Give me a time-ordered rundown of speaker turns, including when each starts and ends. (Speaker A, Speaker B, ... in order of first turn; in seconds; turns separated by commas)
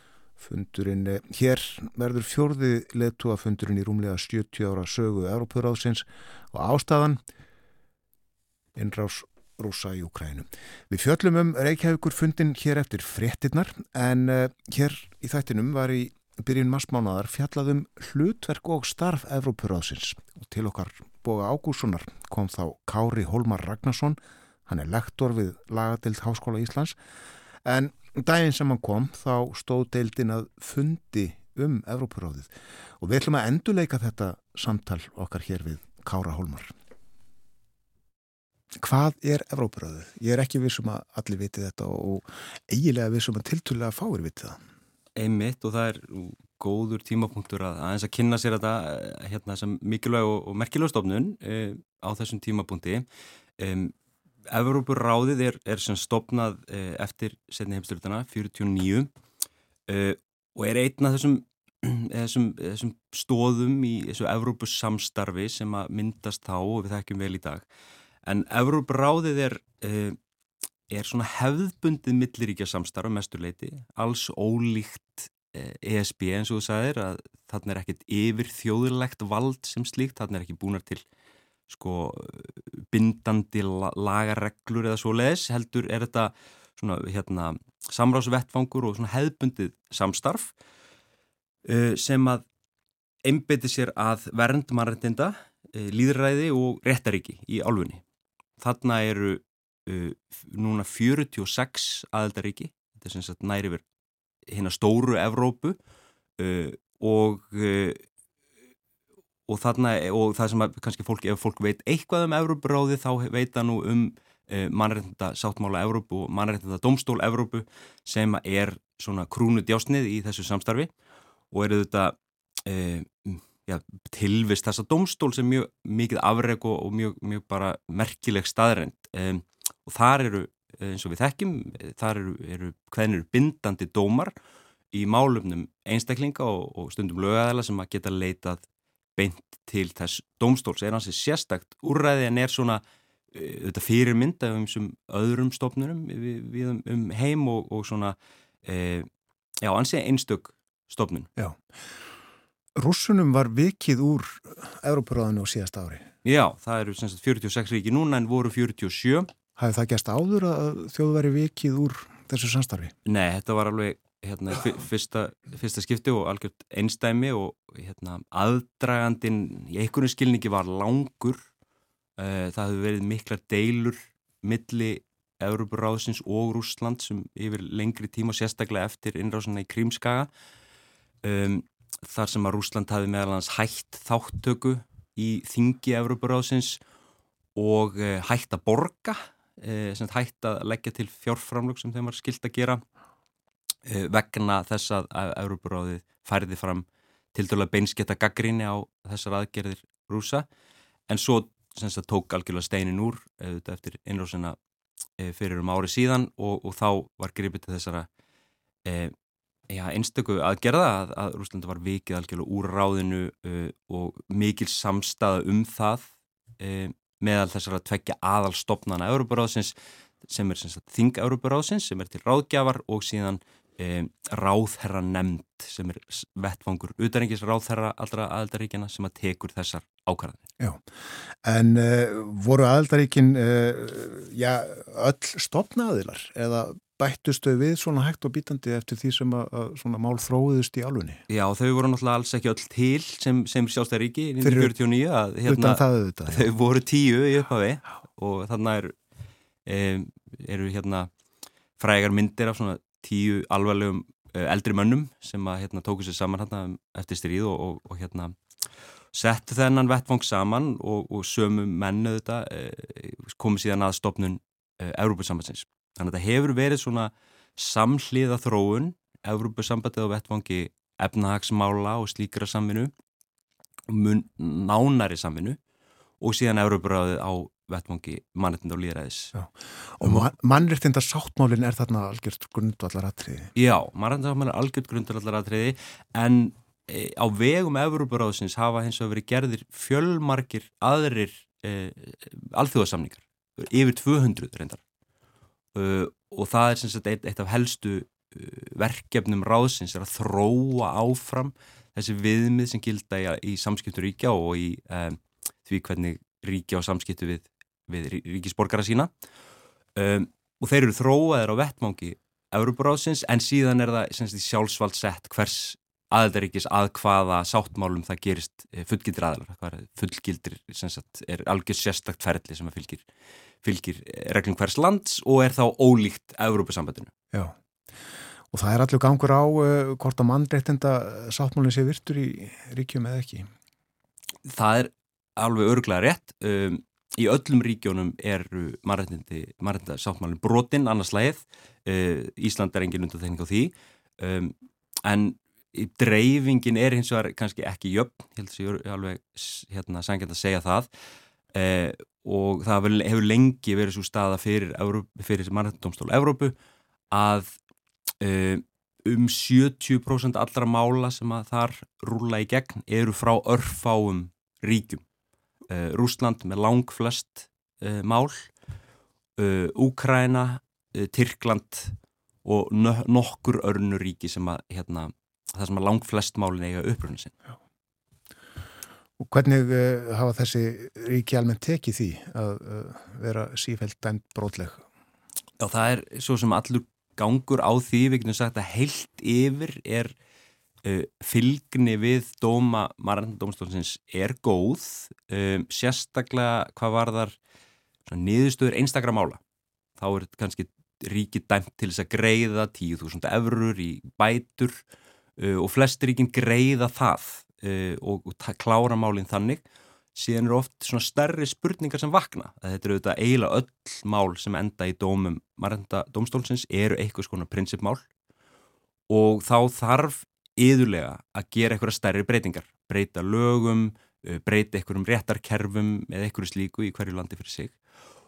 Speaker A: 0.4-7.2, Speaker A: 8.8-27.0, Speaker A: 27.6-36.7, Speaker A: 38.8-44.6, Speaker B: 45.2-53.1, Speaker B: 53.6-53.9, Speaker B: 54.5-59.1, Speaker B: 59.9-67.7, Speaker B: 68.2-70.2, Speaker B: 70.9-81.0, Speaker B: 81.7-90.5, Speaker B: 91.7-92.4, Speaker B: 93.2-98.0, Speaker B: 98.6-103.8, Speaker B: 104.5-105.8, Speaker B: 106.4-108.0, Speaker B: 109.5-120.9, Speaker B: 121.5-134.3, Speaker B: 134.9-138.6, Speaker B: 139.2-149.1, Speaker B: 149.6-151.3, Speaker A: 152.8-156.1, Speaker B: 156.2-159.3, Speaker A: 159.6-162.9, Speaker B: 163.1-171.4, Speaker B: 172.2-180.3, Speaker B: 181.2-186.8, Speaker B: 187.6-192.8, Speaker B: 193.8-200.5, Speaker B: 201.1-204.6, Speaker B: 205.2-208.1, Speaker B: 208.8-209.1, Speaker B: 209.7-230.4, Speaker A: 230.6-241.2, Speaker B: 241.3-248.9, Speaker A: 244.4-244.8, Speaker A: 245.5-246.4, Speaker B: 249.7-251.1, Speaker B: 251.8-258.4, Speaker B: 259.1-272.9, Speaker B: 273.9-275.6, Speaker B: 276.2-279.3, Speaker A: 279.4-283.5, Speaker B: 283.6-294.8, Speaker B: 295.7-309.1, Speaker B: 310.0-323.1, Speaker B: 323.6-327.1, Speaker A: 328.5-333.5, Speaker B: 334.5-344.5, Speaker B: 345.1-350.9, Speaker B: 351.5-356.6, Speaker B: 357.1-357.5, Speaker B: 358.2-365.0, Speaker B: 365.7-368.5, Speaker B: 369.4-377.3, Speaker A: 379.2-384.8, Speaker B: 385.6-390.1, Speaker B: 390.8-397.4, Speaker B: 398.1-399.4, Speaker B: 400.0-404.8, Speaker B: 405.4-409.6, Speaker B: 410.1-418.0, Speaker B: 419.1-427.8